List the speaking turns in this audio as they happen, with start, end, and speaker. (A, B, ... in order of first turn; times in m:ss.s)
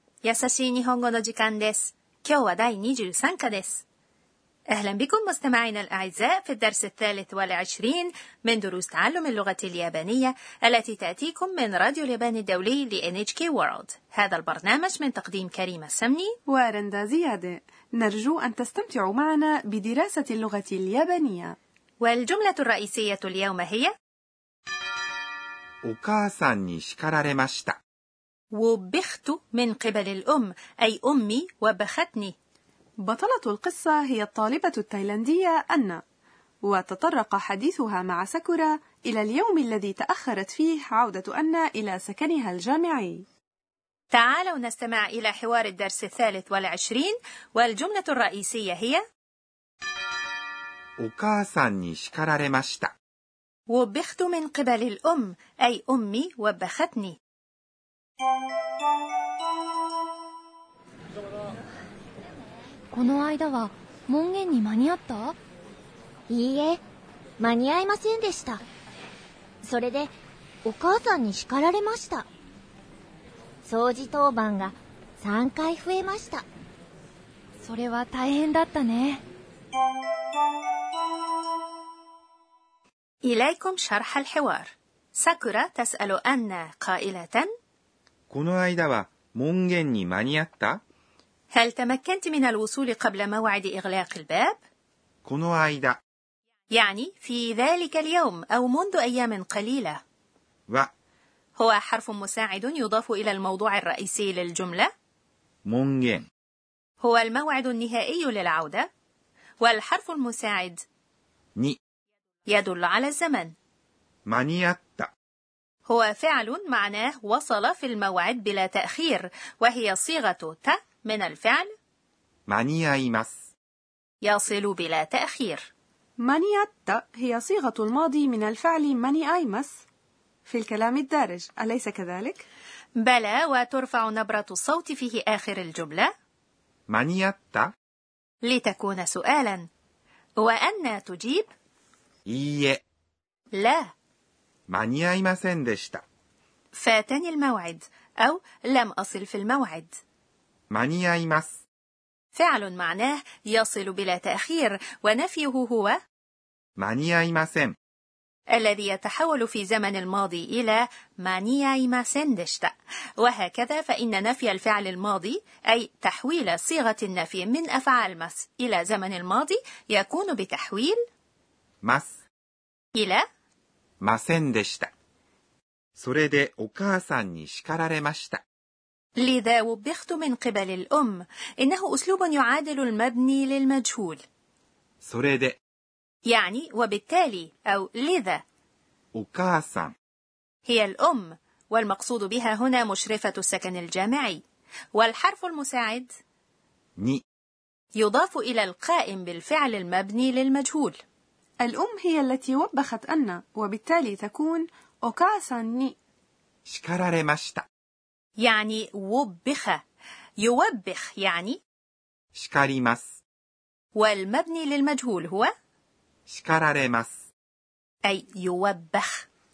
0:00.2-0:03.8 A
0:04.7-0:16.3 A
0:16.5-0:21.6 B
0:22.0-0:23.9 A
0:25.8-0:27.8 C
0:28.5-0:32.3 A
0:33.0-0:36.0 B
0:36.6-0:43.2 B
0:44.1-0:49.0 A
0:51.0-0:52.9 C
0:53.7-0:57.2 A
1:02.9-1:05.3 D
1:06.3-1:06.8 E
1:07.4-1:08.6 E
1:09.6-1:10.1 E
1:10.6-1:12.3 E
1:13.6-1:16.4 E
1:17.6-1:19.2 D
1:23.2-1:27.5 A
1:28.3-1:30.8 C
1:31.5-1:34.6 A
1:35.2-1:36.0 C
1:36.7-1:40.0 A
1:41.6-1:44.9 A
1:45.6-1:46.3 C
1:47.0-1:48.9 A
1:49.6-1:50.8 A
1:52.5-1:53.5 A
1:54.2-1:55.1 C
1:55.9-2:01.7 A
2:02.5-2:03.4 C
2:04.2-2:05.7 A
2:06.2-2:09.8 B
2:10.4-2:12.4 B
2:13.0-2:16.1 A
2:16.9-2:17.7 C
2:18.4-2:19.6 A
2:20.4-2:21.5 A
2:22.2-2:22.8 C
2:23.5-2:23.9 A
2:24.7-2:26.0 C
2:26.7-2:29.9 A
2:30.7-2:31.6 C
2:32.3-2:36.0 A
2:36.8-2:37.7 C
2:38.5-2:51.0 A
2:51.8-2:52.2 C
2:52.9-2:53.2 A
2:54.0-2:54.9 C
2:56.0-2:58.4 C
2:59.2-3:04.2 A
3:05.0-3:05.6 C
3:06.2-3:08.4 A
3:09.1-3:09.9 C
3:10.7-3:14.4 A
3:14.9-3:16.1 A
3:17.0-3:17.2 C
3:18.0-3:21.0 A
3:21.6-3:26.0 B
3:26.6-3:27.6 C
3:28.4-3:29.8 A
3:30.4-3:31.6 A
3:32.3-3:33.1 C
3:33.9-3:35.5 A
3:36.3-3:37.1 C
3:38.0-3:39.2 A